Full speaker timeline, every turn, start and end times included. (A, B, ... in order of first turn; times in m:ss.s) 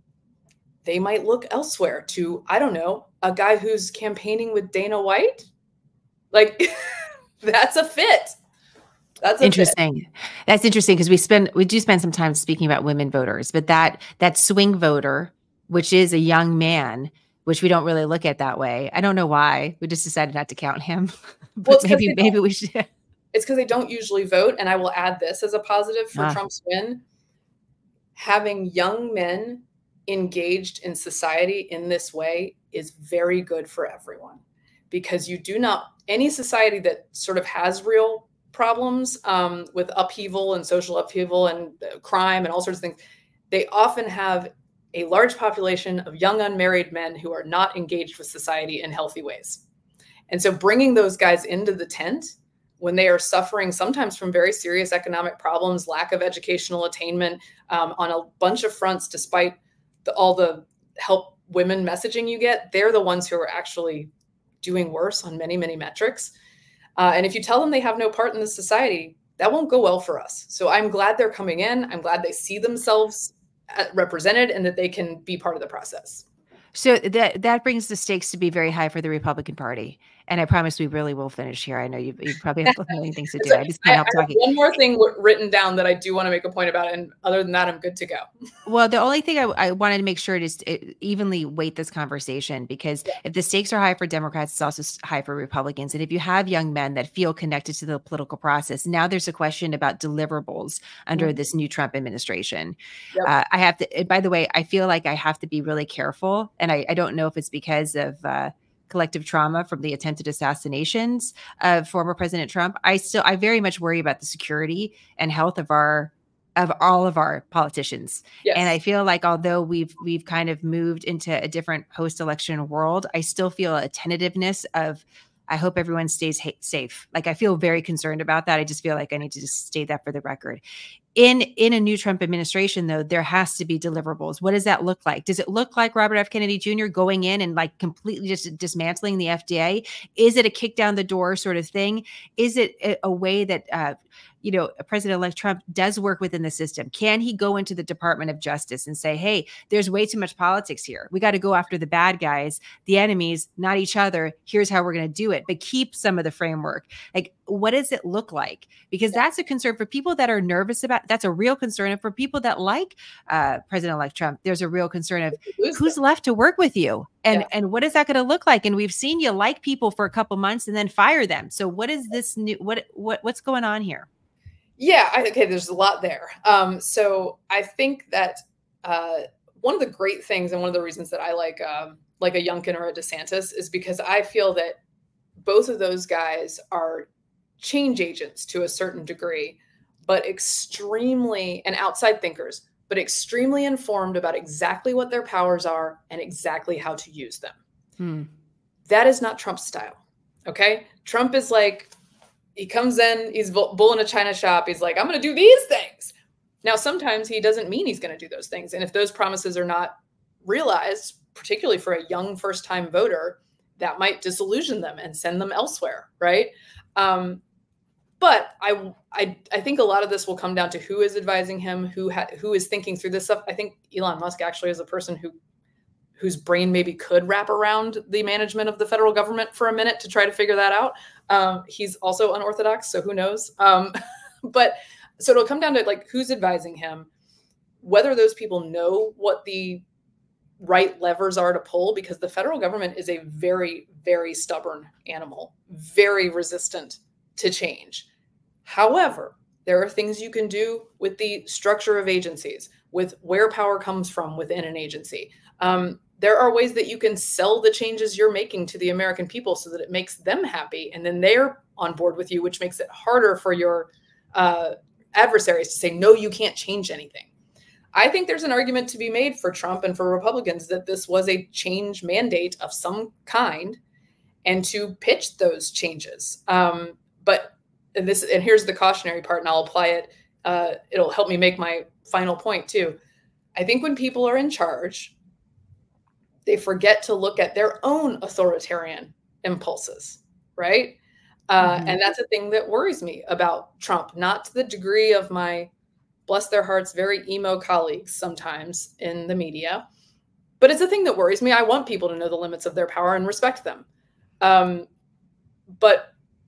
0:00.8-0:05.5 A
0:06.3-0:08.3 A
0:09.2-0:09.8 A
0:09.4-0:22.9 B
0:21.6-0:22.4 A
0:23.3-0:27.0 A
0:26.2-0:26.4 B
0:28.2-0:43.0 A
0:43.5-0:49.6 A
0:50.3-1:06.3 A
1:07.0-1:16.2 A
1:16.7-1:24.5 B
1:23.4-1:28.2 A
1:28.7-2:10.6 B
1:58.4-1:58.7 A
2:11.2-2:54.1 B
2:45.4-2:46.0 A
2:54.8-3:04.8 A
3:05.4-3:07.1 A
3:07.6-3:17.6 A
3:18.0-3:18.3 B
3:18.9-3:21.9 A
3:22.6-3:37.4 A
3:38.2-3:45.3 A
3:46.2-3:53.9 A
3:54.5-3:57.1 A
3:57.8-3:59.8 A
4:00.6-4:08.1 A
4:08.6-4:27.3 A
4:27.9-4:33.8 A
4:34.4-4:43.0 A
4:43.6-4:45.1 A
4:46.5-4:51.0 A
4:51.5-4:55.7 A
4:51.6-4:52.0 B
4:56.3-4:59.8 A
5:00.6-5:03.9 A
5:04.4-5:04.9 A
5:05.8-5:06.1 A